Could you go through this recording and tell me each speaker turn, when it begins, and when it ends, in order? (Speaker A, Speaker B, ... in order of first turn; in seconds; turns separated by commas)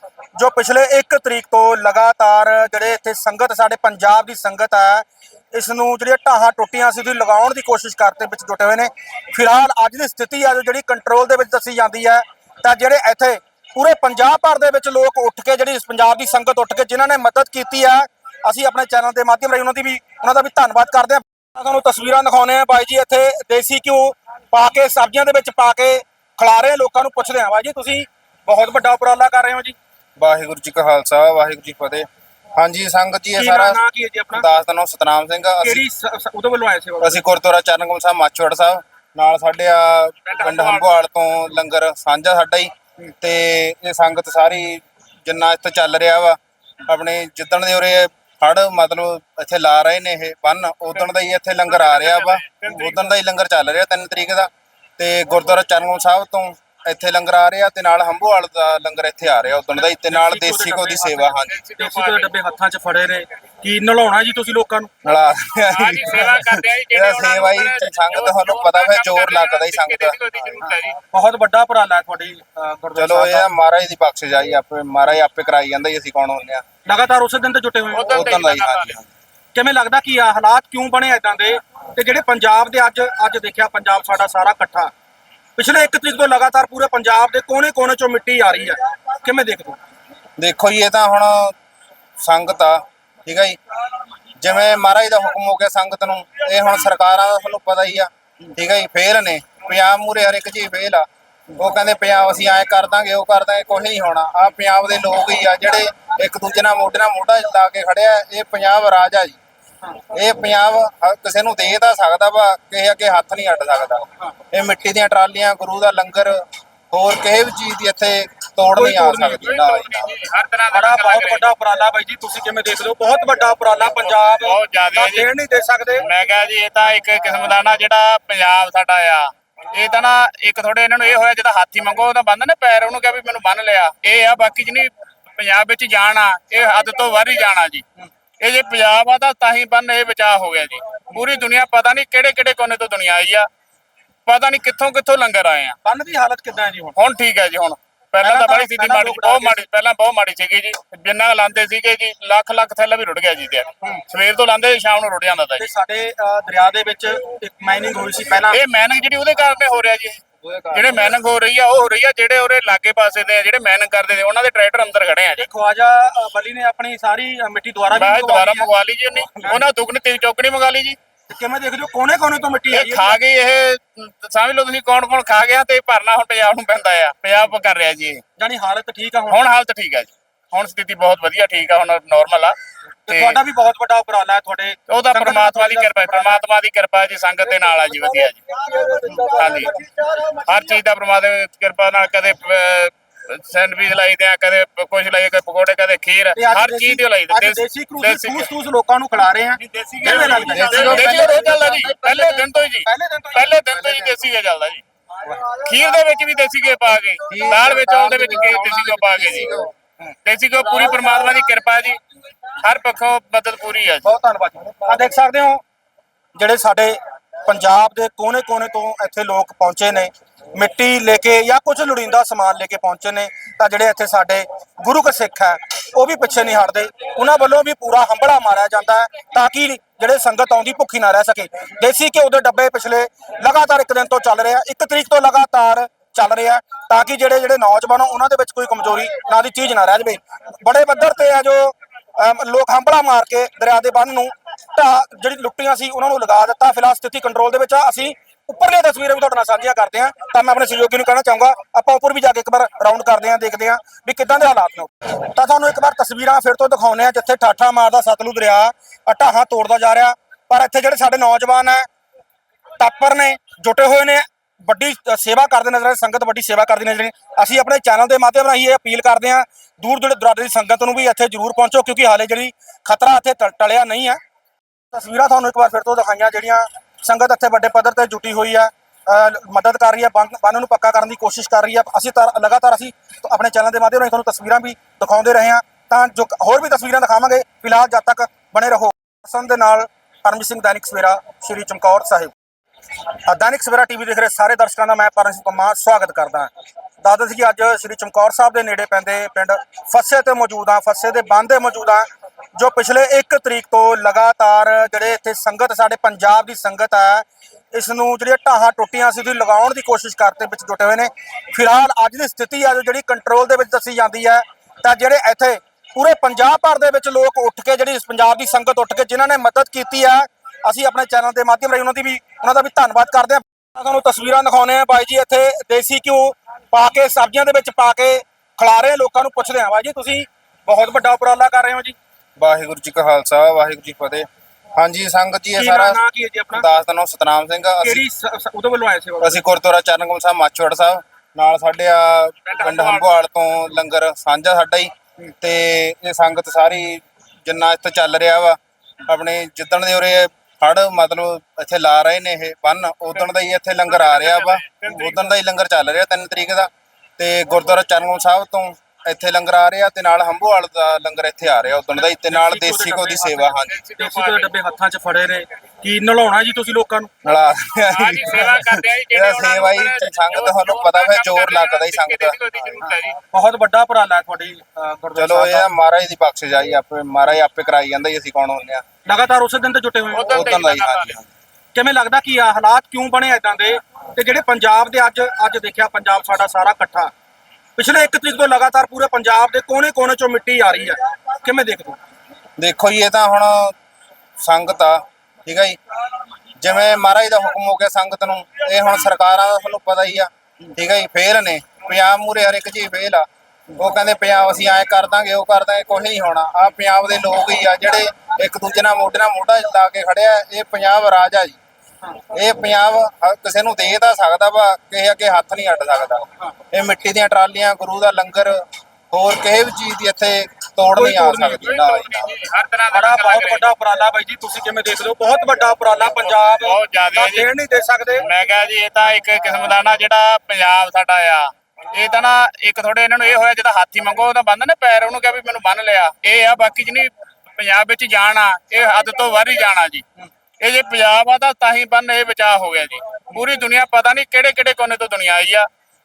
Speaker A: 0.4-29.8, Speaker B: 30.2-33.8, Speaker A: 33.4-34.5, Speaker B: 34.3-35.8, Speaker A: 35.6-37.3, Speaker B: 37.0-61.6, Speaker C: 40.3-41.0, Speaker C: 51.7-53.0, Speaker A: 60.0-64.9, Speaker C: 61.5-62.3, Speaker B: 65.0-70.2, Speaker C: 65.7-71.0, Speaker A: 70.6-73.5, Speaker B: 73.0-76.6, Speaker A: 76.9-78.3, Speaker C: 77.9-79.0, Speaker B: 78.1-79.1, Speaker A: 79.5-84.9, Speaker A: 85.6-89.8, Speaker B: 90.4-91.5, Speaker B: 92.2-93.6, Speaker B: 94.4-109.4, Speaker B: 110.1-120.1, Speaker A: 118.7-119.6, Speaker C: 119.4-121.5, Speaker A: 120.7-126.1, Speaker C: 124.4-125.3, Speaker C: 126.0-137.8, Speaker C: 138.4-143.5, Speaker C: 144.3-145.8, Speaker A: 145.8-146.9, Speaker C: 147.0-155.7, Speaker A: 148.2-149.6, Speaker A: 155.6-158.6, Speaker C: 158.5-165.5, Speaker A: 165.4-168.7, Speaker C: 167.9-171.0, Speaker A: 171.3-173.2, Speaker C: 172.7-178.2, Speaker A: 178.4-179.4, Speaker C: 179.3-182.6, Speaker A: 183.1-186.4, Speaker C: 183.1-183.4, Speaker C: 184.9-188.4, Speaker A: 187.6-190.4, Speaker C: 189.3-189.7, Speaker C: 190.4-198.5, Speaker A: 196.4-201.4, Speaker C: 199.6-204.8, Speaker B: 200.0-202.5, Speaker A: 202.8-203.5, Speaker B: 203.7-204.2, Speaker C: 205.4-209.5, Speaker B: 207.3-209.7, Speaker C: 210.2-212.0, Speaker A: 210.7-211.3, Speaker C: 212.6-214.1, Speaker A: 214.0-215.6, Speaker A: 216.3-261.9, Speaker A: 262.8-274.2, Speaker A: 274.9-292.3, Speaker A: 293.3-296.5, Speaker A: 297.0-332.0, Speaker B: 332.4-336.0, Speaker A: 335.6-336.7, Speaker B: 336.5-338.0, Speaker A: 337.8-339.4, Speaker B: 339.2-363.8, Speaker C: 342.5-343.2, Speaker C: 353.9-355.3, Speaker A: 362.1-367.1, Speaker C: 363.6-364.5, Speaker B: 367.2-372.4, Speaker C: 367.8-373.2, Speaker A: 373.3-375.7, Speaker B: 375.2-378.8, Speaker A: 379.1-380.5, Speaker C: 380.1-381.2, Speaker B: 380.3-381.3, Speaker A: 381.8-387.1, Speaker A: 387.8-392.0, Speaker B: 392.6-393.7, Speaker B: 394.4-395.8, Speaker B: 396.6-403.2, Speaker B: 403.8-411.6, Speaker B: 412.3-422.2, Speaker A: 420.9-421.8, Speaker C: 421.6-423.6, Speaker A: 422.9-428.3, Speaker C: 426.6-427.5, Speaker C: 428.2-440.0, Speaker C: 440.6-445.7